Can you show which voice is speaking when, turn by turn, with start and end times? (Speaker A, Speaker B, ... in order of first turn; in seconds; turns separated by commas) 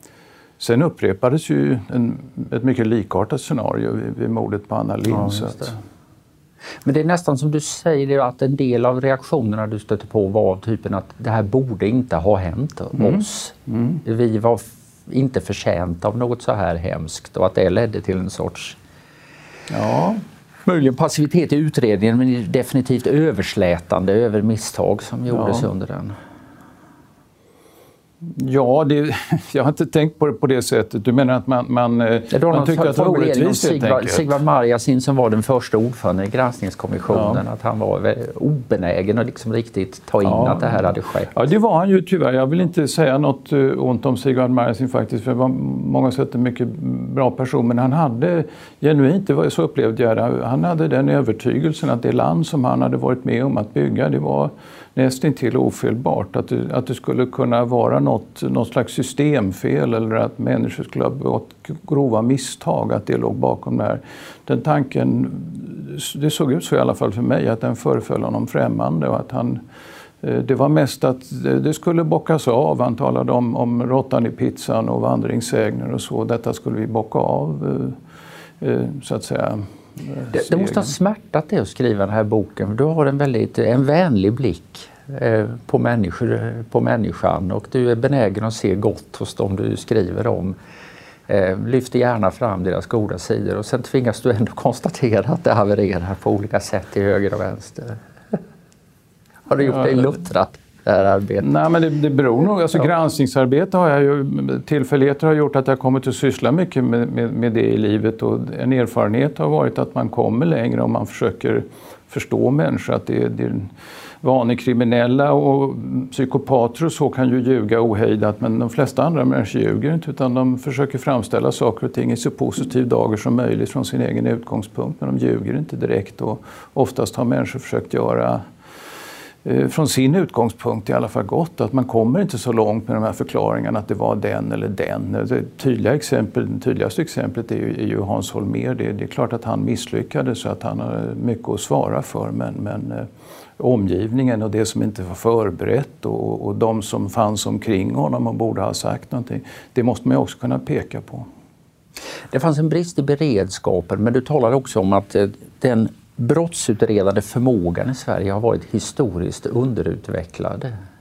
Speaker A: 0.6-5.8, Speaker B: 5.1-5.7, Speaker B: 6.8-18.8, Speaker A: 13.0-14.0, Speaker A: 19.7-20.2, Speaker B: 20.7-26.2, Speaker A: 25.3-25.7, Speaker A: 28.2-34.4, Speaker B: 32.3-41.3, Speaker A: 37.1-37.4, Speaker A: 40.2-69.6, Speaker A: 70.2-78.0, Speaker A: 78.6-80.9, Speaker B: 80.3-90.6, Speaker B: 91.3-98.4, Speaker B: 99.5-101.5, Speaker A: 101.4-113.7, Speaker A: 114.2-128.4, Speaker A: 129.4-151.3, Speaker B: 152.3-160.7